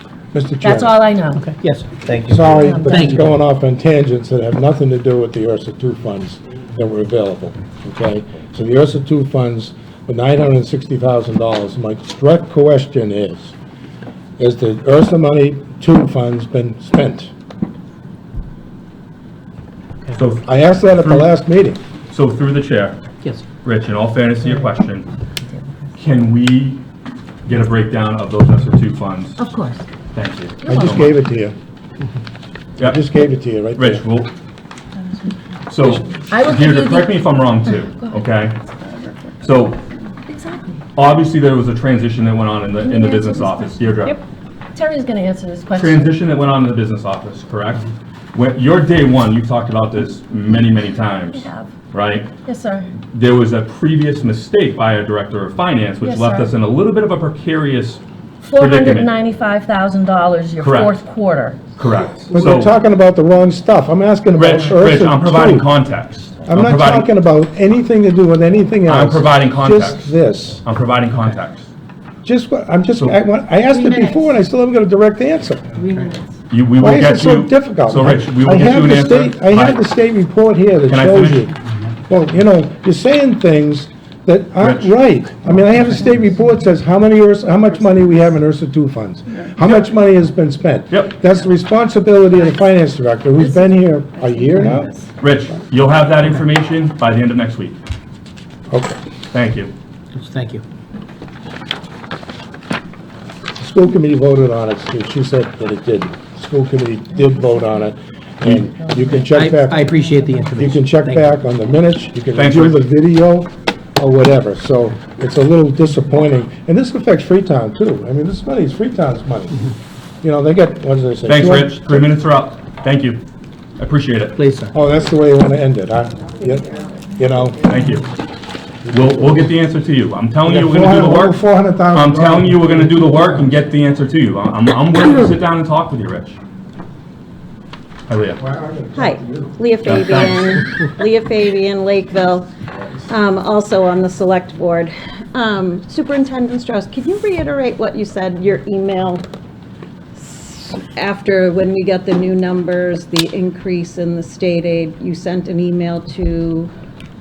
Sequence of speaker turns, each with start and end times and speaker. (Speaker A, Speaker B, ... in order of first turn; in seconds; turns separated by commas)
Speaker A: 0.3-1.0, Speaker B: 0.6-1.5, Speaker C: 1.4-3.3, Speaker A: 2.3-13.6, Speaker B: 2.6-3.2, Speaker A: 14.4-17.3, Speaker D: 20.1-21.3, Speaker A: 20.4-21.8, Speaker D: 22.1-23.0, Speaker D: 23.6-25.1, Speaker D: 26.0-26.8, Speaker D: 27.5-29.4, Speaker B: 29.4-29.9, Speaker D: 30.1-31.1, Speaker B: 30.6-31.1, Speaker A: 30.7-31.6, Speaker A: 32.8-34.0, Speaker D: 33.8-34.3, Speaker B: 35.1-37.2, Speaker D: 35.7-38.6, Speaker E: 38.8-39.1, Speaker D: 39.4-39.8, Speaker B: 40.3-40.8, Speaker D: 41.0-44.2, Speaker B: 42.8-46.1, Speaker D: 45.8-52.3, Speaker B: 51.3-51.7, Speaker B: 52.5-52.9, Speaker D: 53.1-58.0, Speaker B: 56.0-56.5, Speaker B: 58.4-61.7, Speaker D: 58.6-59.1, Speaker D: 60.6-60.9, Speaker D: 61.8-62.7, Speaker A: 62.3-65.7, Speaker D: 64.3-67.1, Speaker A: 66.5-70.6, Speaker D: 68.9-70.1, Speaker D: 70.6-71.7, Speaker A: 72.2-75.8, Speaker C: 75.8-76.1, Speaker D: 76.5-79.8, Speaker A: 76.8-81.6, Speaker D: 80.9-81.5, Speaker A: 82.1-94.9, Speaker D: 84.6-84.9, Speaker D: 90.9-91.2, Speaker E: 93.4-95.1, Speaker D: 95.2-97.8, Speaker A: 98.7-99.0, Speaker D: 99.3-99.7, Speaker C: 100.1-100.6, Speaker A: 103.6-109.9, Speaker B: 107.3-107.8, Speaker C: 108.4-111.4, Speaker B: 108.8-110.6, Speaker A: 110.5-119.7, Speaker D: 112.4-112.8, Speaker A: 120.2-122.1, Speaker D: 121.3-123.2, Speaker D: 123.8-124.4, Speaker C: 124.4-124.8, Speaker A: 124.7-127.7, Speaker E: 126.7-127.0, Speaker D: 127.7-128.1, Speaker A: 128.8-129.5, Speaker D: 128.9-131.4, Speaker A: 130.4-133.6, Speaker D: 131.9-136.4, Speaker D: 138.1-138.4, Speaker A: 138.4-139.6, Speaker E: 138.9-142.5, Speaker D: 139.9-140.5, Speaker E: 143.1-149.2, Speaker E: 150.2-156.7